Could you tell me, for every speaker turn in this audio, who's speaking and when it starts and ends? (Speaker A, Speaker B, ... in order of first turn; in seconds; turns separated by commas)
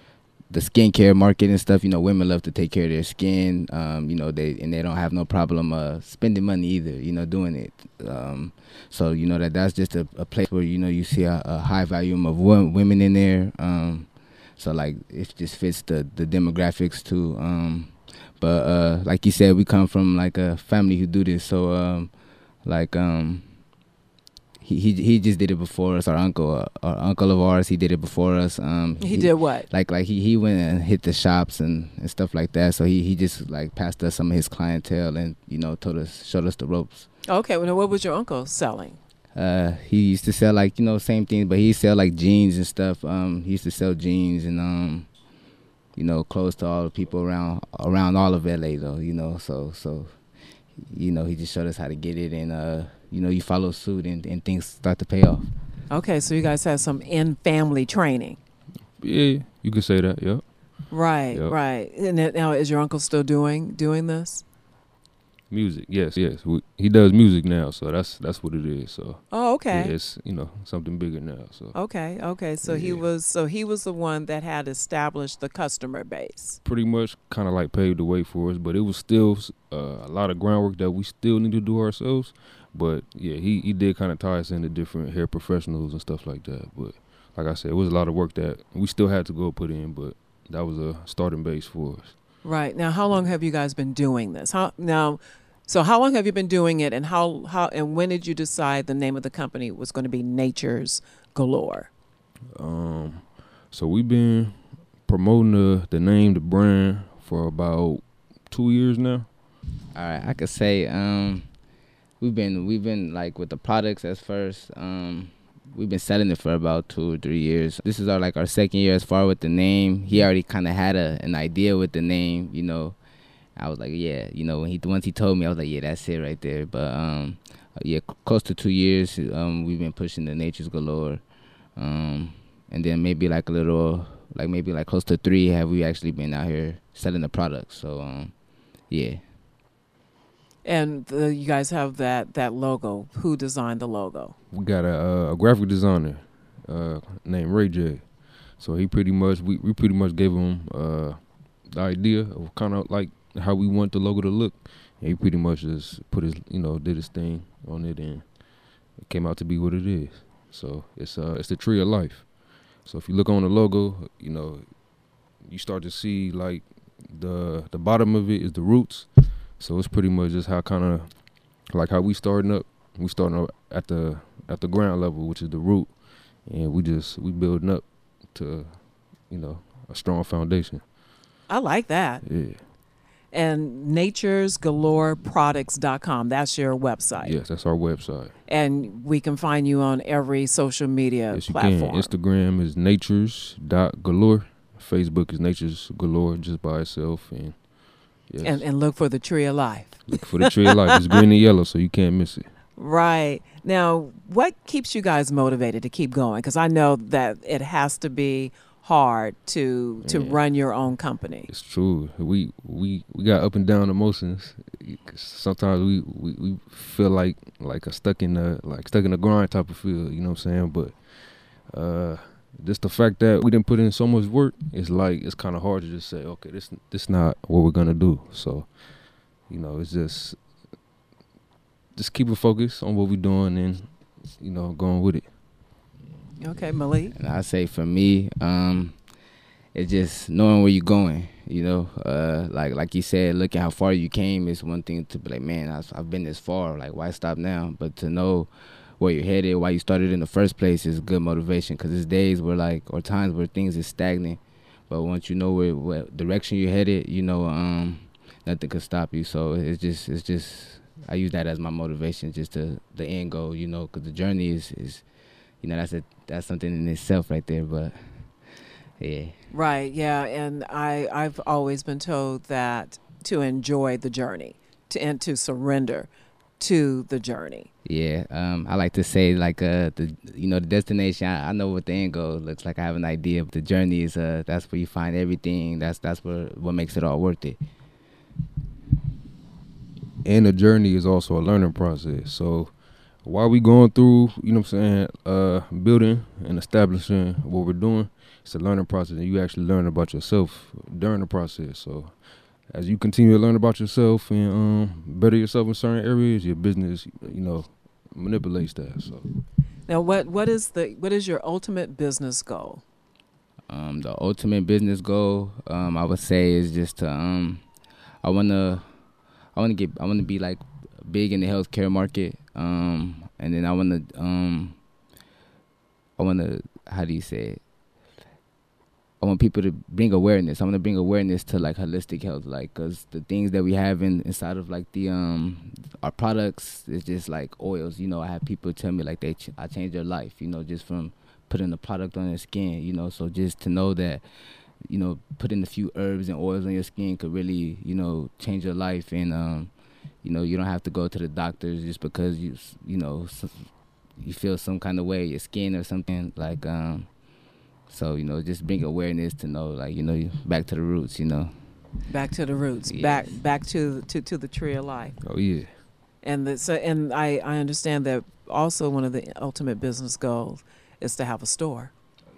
Speaker A: 0.5-23.7, Speaker A: 24.6-37.1, Speaker B: 29.0-29.7, Speaker B: 37.3-39.0, Speaker A: 39.3-45.2, Speaker A: 45.9-55.5, Speaker B: 55.9-58.4, Speaker C: 59.0-61.5, Speaker B: 60.9-64.4, Speaker C: 65.5-71.8, Speaker B: 69.3-69.9, Speaker B: 71.7-76.6, Speaker C: 72.6-73.0, Speaker C: 76.6-92.4, Speaker B: 92.4-101.9, Speaker C: 102.5-109.3, Speaker A: 109.9-111.5, Speaker A: 112.2-123.0, Speaker A: 123.5-139.2, Speaker B: 140.6-144.3, Speaker C: 144.5-180.9, Speaker B: 181.5-182.4, Speaker C: 182.2-182.6, Speaker B: 183.3-187.4, Speaker C: 187.2-188.4, Speaker B: 188.5-192.1, Speaker C: 191.3-198.6, Speaker B: 198.4-201.0, Speaker C: 200.1-202.5, Speaker B: 202.8-211.5, Speaker C: 210.0-210.4, Speaker C: 211.5-230.6, Speaker C: 231.9-235.3, Speaker B: 236.4-237.1, Speaker A: 237.1-239.1, Speaker A: 239.7-265.1, Speaker A: 265.6-269.3, Speaker B: 269.5-277.7, Speaker A: 277.8-287.6, Speaker C: 290.2-309.2, Speaker B: 309.9-312.8, Speaker A: 313.7-317.7, Speaker A: 318.2-319.0, Speaker A: 319.5-324.8, Speaker A: 326.2-327.6, Speaker A: 329.2-344.2, Speaker A: 344.8-357.3, Speaker A: 357.9-361.7, Speaker B: 362.1-365.2, Speaker A: 362.9-363.2, Speaker C: 365.2-365.7, Speaker B: 366.2-371.9